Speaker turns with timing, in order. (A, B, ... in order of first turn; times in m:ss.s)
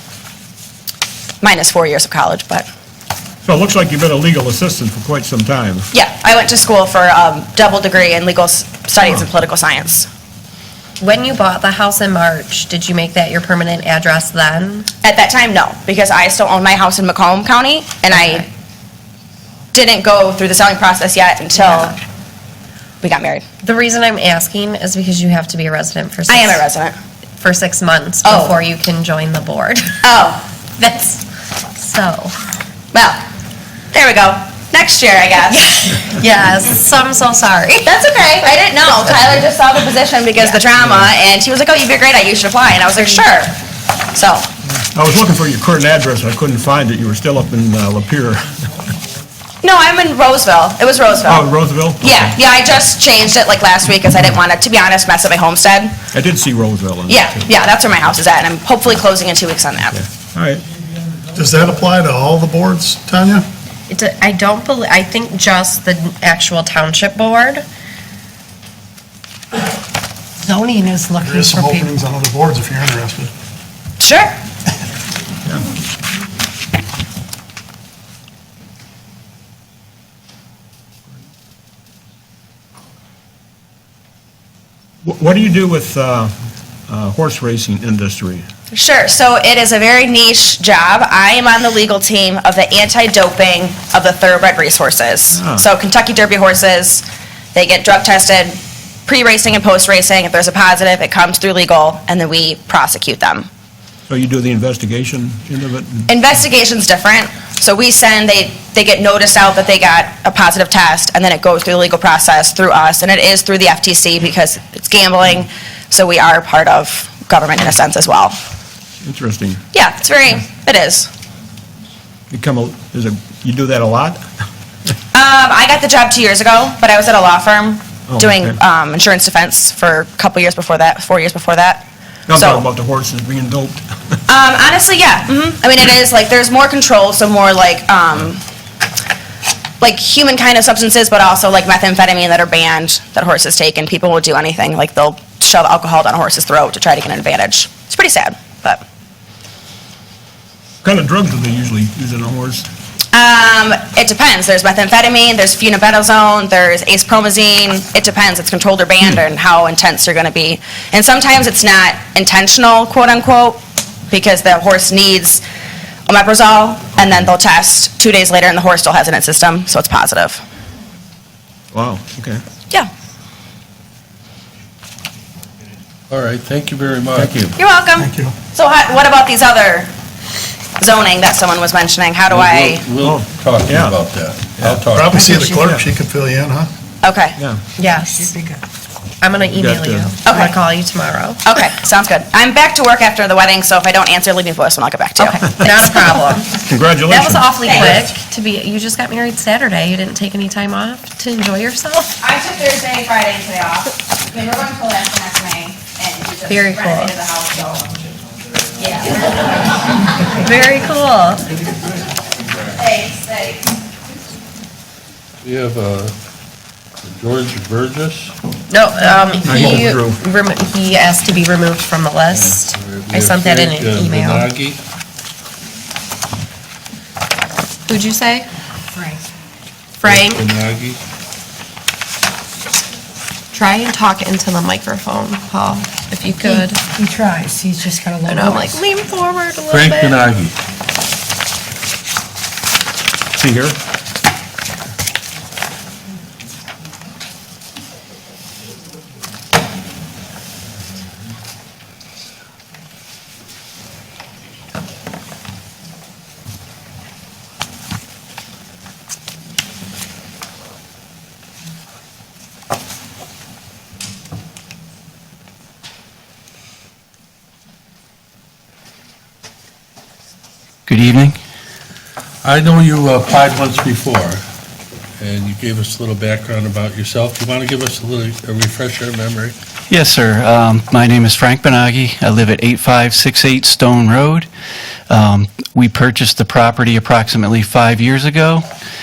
0:01.4-0:02.7 A
0:03.4-0:05.9 B
0:05.9-0:10.1 A
0:11.0-0:14.9 C
0:15.0-0:18.5 A
0:18.1-0:18.5 C
0:19.7-0:22.0 A
0:23.0-0:23.4 A
0:23.6-0:26.6 C
0:26.3-0:27.0 A
0:27.4-0:30.0 C
0:28.2-0:28.6 A
0:30.0-0:30.4 A
0:30.8-0:31.2 C
0:31.8-0:32.4 C
0:32.9-0:33.2 A
0:33.9-0:35.7 A
0:35.5-0:37.9 C
0:37.8-0:43.6 A
0:44.1-0:44.5 A
0:44.9-0:48.6 B
0:49.6-0:51.5 A
0:51.3-0:52.3 B
0:52.0-0:55.9 A
0:56.1-0:57.4 B
0:57.1-1:00.0 A
1:00.2-1:00.6 B
1:01.3-1:03.5 D
1:03.9-1:07.6 C
1:10.4-1:11.9 E
1:11.2-1:13.3 D
1:14.0-1:14.4 A
1:25.0-1:26.3 B
1:26.9-1:28.5 B
1:28.7-1:43.5 A
1:35.3-1:35.6 B
1:44.1-1:46.1 B
1:46.1-1:58.4 A
1:59.0-1:59.6 B
1:59.7-2:01.1 A
2:02.3-2:04.3 B
2:05.1-2:11.8 A
2:08.1-2:08.6 B
2:12.3-2:13.9 B
2:12.4-2:12.6 A
2:14.3-2:18.4 A
2:19.8-2:28.8 A
2:30.8-2:32.7 B
2:33.1-2:43.6 A
2:44.1-2:45.4 A
2:46.1-2:50.4 A
2:51.7-2:52.4 B
2:56.1-2:57.3 F
2:57.1-2:57.6 B
2:57.6-2:59.9 A
2:58.0-2:58.4 D
3:00.8-3:02.9 A
3:02.3-3:05.1 F
3:03.0-3:04.0 B
3:04.6-3:05.8 B
3:04.9-3:06.7 D
3:07.0-3:07.4 A
3:07.4-3:07.6 B
3:07.8-3:08.3 C
3:08.0-3:08.6 E
3:09.2-3:11.4 C
3:09.5-3:10.1 B
3:10.3-3:10.6 A
3:11.5-3:16.0 A
3:15.2-3:16.6 C
3:16.6-3:18.0 B
3:17.1-3:22.1 C
3:17.6-3:18.1 A
3:22.2-3:28.0 A
3:26.5-3:27.1 C
3:28.8-3:29.5 A
3:30.4-3:31.6 C
3:32.7-3:33.6 A
3:35.4-3:36.2 F
3:37.0-3:38.4 F
3:38.7-3:44.5 C
3:39.4-3:40.2 B
3:42.3-3:44.8 F
3:47.9-3:48.5 C
3:49.0-3:49.2 E
3:50.0-3:50.5 C
3:50.0-3:51.0 F
3:53.5-3:56.8 C
3:56.3-3:58.8 E
3:58.3-4:00.2 C
3:59.7-4:00.6 F
4:03.4-4:03.8 B
4:30.9-4:31.4 G
4:32.4-4:34.4 F
4:35.2-4:39.6 F
4:39.9-4:44.5 G
4:45.1-4:48.7 G